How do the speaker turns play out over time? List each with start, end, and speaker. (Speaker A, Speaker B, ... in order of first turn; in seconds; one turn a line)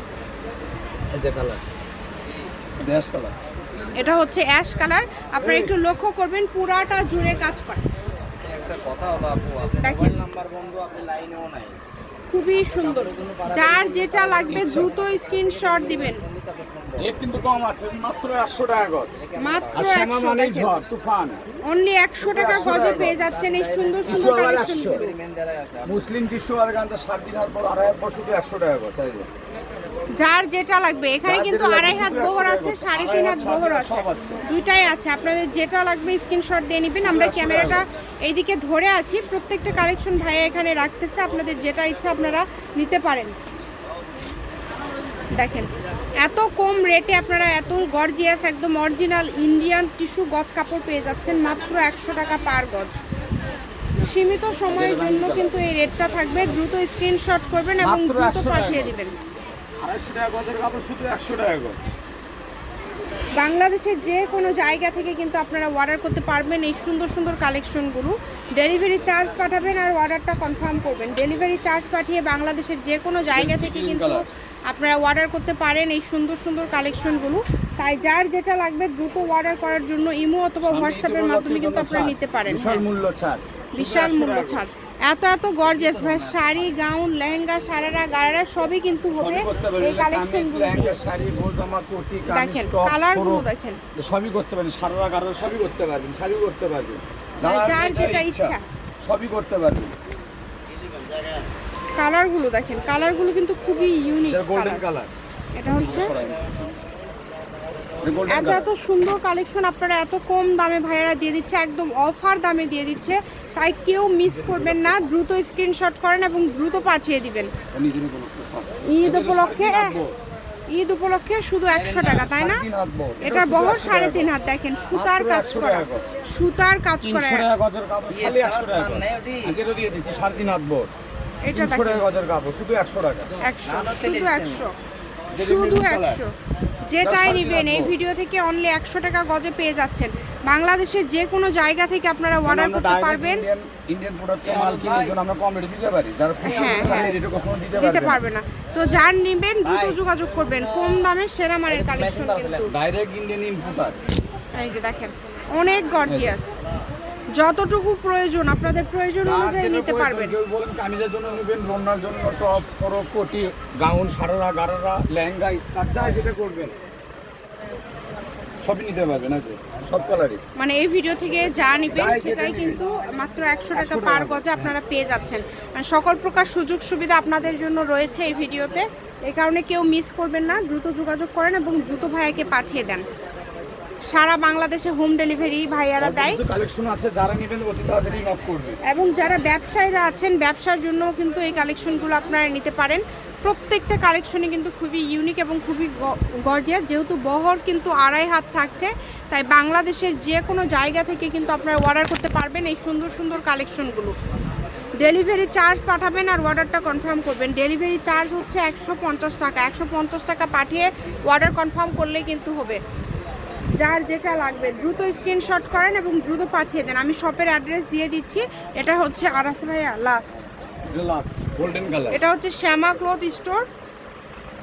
Speaker A: 1.1-1.6
Speaker A: 2.8-3.3
Speaker B: 4.0-7.8
Speaker A: 5.4-5.8
Speaker C: 8.4-11.8
Speaker B: 9.8-10.2
Speaker B: 12.3-16.2
Speaker C: 12.6-17.2
Speaker A: 14.5-14.9
Speaker A: 17.0-19.2
Speaker C: 19.1-20.0
Speaker B: 19.4-20.7
Speaker A: 19.7-21.4
Speaker B: 21.6-25.1
Speaker A: 22.2-23.2
Speaker C: 22.8-26.1
Speaker A: 24.0-25.0
Speaker A: 25.8-29.3
Speaker B: 30.1-43.3
Speaker A: 31.2-34.4
Speaker A: 37.0-37.8
Speaker B: 45.3-45.7
Speaker B: 46.2-53.0
Speaker B: 54.0-59.1
Speaker A: 54.7-55.5
Speaker A: 57.8-59.0
Speaker A: 59.8-61.8
Speaker B: 63.4-82.8
Speaker A: 73.3-74.2
Speaker A: 80.6-84.7
Speaker B: 83.7-91.0
Speaker C: 85.6-86.7
Speaker A: 89.1-93.4
Speaker B: 92.3-93.8
Speaker A: 94.0-99.9
Speaker B: 97.4-98.6
Speaker B: 102.0-104.8
Speaker A: 104.3-105.1
Speaker B: 105.5-106.1
Speaker A: 105.7-106.6
Speaker A: 108.0-108.7
Speaker B: 108.3-117.5
Speaker A: 114.2-115.1
Speaker A: 117.7-120.2
Speaker B: 118.8-120.0
Speaker B: 120.7-122.6
Speaker C: 121.7-122.3
Speaker A: 122.2-124.3
Speaker B: 123.2-127.4
Speaker A: 124.9-126.1
Speaker A: 127.0-130.9
Speaker C: 128.1-129.6
Speaker B: 131.4-132.0
Speaker A: 131.5-133.3
Speaker B: 133.4-134.7
Speaker C: 133.7-134.7
Speaker A: 135.3-136.2
Speaker B: 135.3-136.3
Speaker B: 136.9-143.4
Speaker A: 137.0-138.0
Speaker A: 142.4-148.2
Speaker C: 144.4-145.2
Speaker B: 146.4-147.1
Speaker C: 146.6-147.2
Speaker B: 147.7-152.7
Speaker C: 149.6-150.0
Speaker C: 151.7-152.7
Speaker A: 152.7-154.0
Speaker B: 154.5-156.5
Speaker A: 156.1-156.3
Speaker B: 157.3-160.3
Speaker A: 159.2-166.7
Speaker A: 168.6-170.4
Speaker B: 170.6-183.0
Speaker A: 171.9-172.8
Speaker A: 173.7-174.8
Speaker B: 184.1-186.4
Speaker A: 186.0-188.8
Speaker B: 188.8-204.1
Speaker B: 205.0-212.8
Speaker B: 213.8-220.4
Speaker A: 220.9-222.2
Speaker B: 222.1-223.6